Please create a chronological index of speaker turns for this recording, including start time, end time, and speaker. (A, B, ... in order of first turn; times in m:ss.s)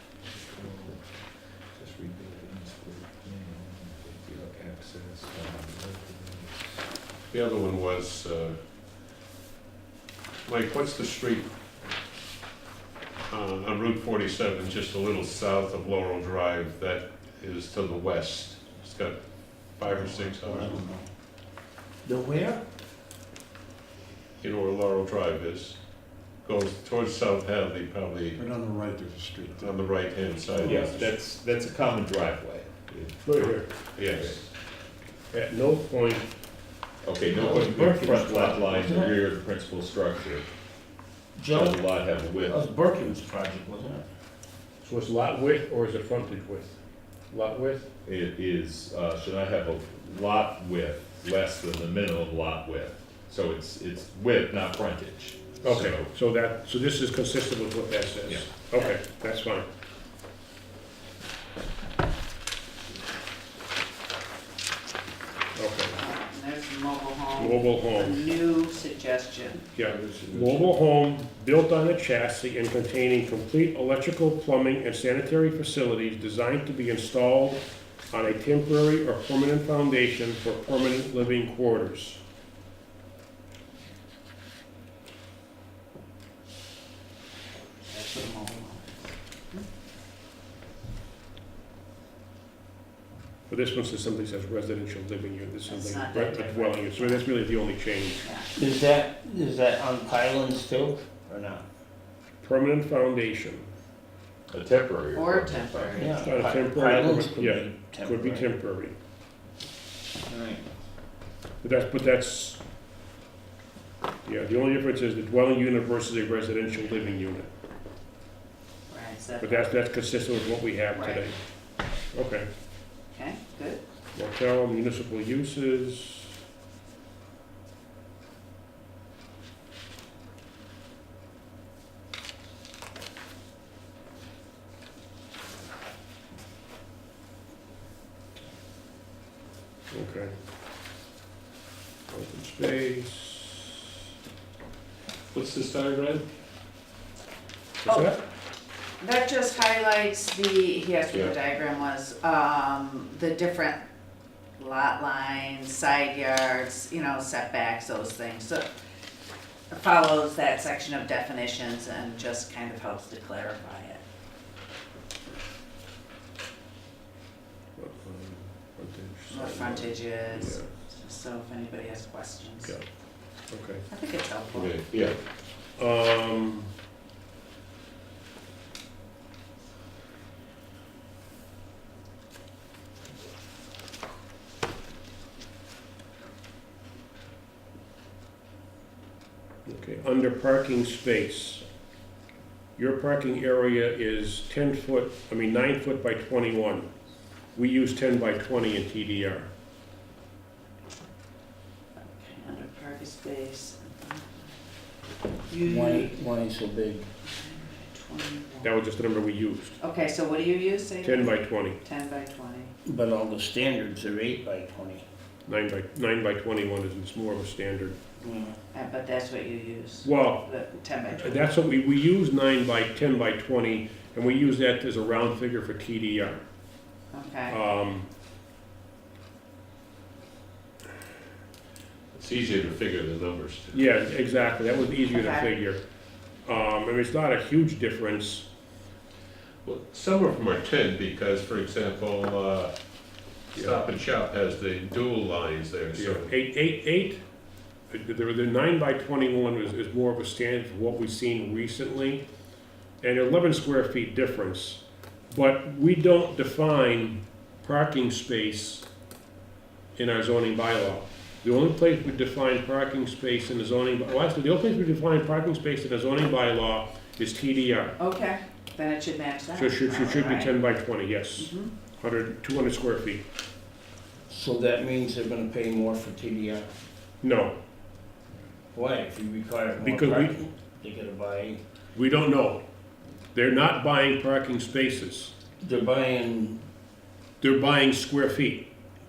0:00.2-0:01.2 A
0:01.7-0:06.8 A
0:07.3-0:08.6 B
0:10.4-0:11.5 B
0:13.3-0:20.8 B
0:19.8-0:21.0 C
0:22.0-0:22.6 D
0:24.4-0:25.8 B
0:26.4-0:28.4 B
0:28.4-0:29.8 C
0:29.6-0:31.1 B
0:30.6-0:34.5 A
0:30.6-0:30.9 D
0:33.2-0:33.7 E
0:34.0-0:34.4 B
0:35.3-0:36.3 E
0:37.0-0:40.5 A
0:37.3-0:39.2 D
0:37.4-0:38.5 E
0:41.4-0:41.8 D
0:41.5-0:42.6 A
0:42.4-0:44.0 D
0:44.8-0:47.9 E
0:48.0-0:56.1 A
0:55.6-0:59.7 E
1:05.6-1:06.0 E
1:05.9-1:09.7 F
1:07.4-1:08.2 E
1:09.7-1:22.2 E
1:10.1-1:10.4 C
1:27.9-1:29.6 F
1:33.5-1:38.2 E
1:35.7-1:37.2 F
1:38.2-1:38.5 F
1:38.6-1:41.6 D
1:42.4-1:43.6 E
1:44.5-1:46.1 A
1:45.1-1:46.2 F
1:46.0-1:48.5 D
1:46.2-1:48.9 E
1:50.3-1:50.6 D
1:51.6-1:52.6 E
1:54.2-1:57.5 E
1:58.9-1:59.7 F
1:59.4-2:01.4 E
2:00.9-2:01.2 F
2:02.1-2:02.5 E
2:03.1-2:03.8 F
2:04.1-2:06.4 E
2:19.9-2:20.3 E
2:22.1-2:23.6 E
2:25.3-2:26.2 B
2:27.9-2:28.2 E
2:29.0-2:33.8 F
2:34.6-2:38.6 F
2:39.7-2:44.0 F
2:47.8-2:50.7 E
2:49.3-2:52.7 F
2:53.5-2:53.8 E
2:53.9-2:54.8 F
2:54.5-2:55.2 B
2:55.8-2:56.7 E
3:09.6-3:11.6 E
3:12.8-3:16.8 E
3:17.5-3:19.5 E
3:22.0-3:24.5 F
3:25.5-3:26.2 F
3:25.6-3:27.1 D
3:27.2-3:28.7 F
3:28.6-3:29.8 E
3:29.8-3:32.7 F
3:31.0-3:31.8 E
3:32.8-3:35.0 D
3:35.5-3:38.0 E
3:38.2-3:38.6 D
3:38.7-3:41.4 F
3:40.0-3:40.5 E
3:41.1-3:46.4 E
3:47.1-3:47.6 F
3:47.5-3:48.1 E
3:52.1-3:53.8 B
3:53.7-3:55.8 E
3:54.9-3:55.6 F
3:56.4-3:58.5 E
3:59.6-4:02.7 B
4:03.5-4:06.3 B
4:05.9-4:07.2 E
4:07.9-4:12.2 E
4:13.0-4:18.8 E
4:20.0-4:28.0 E
4:28.0-4:30.5 F
4:29.6-4:33.2 E
4:31.4-4:31.7 F
4:34.3-4:36.7 D
4:37.2-4:37.5 E
4:38.7-4:41.6 D
4:39.8-4:40.4 E
4:41.9-4:42.6 E
4:43.3-4:45.3 E
4:45.6-4:46.6 D
4:47.4-4:48.6 E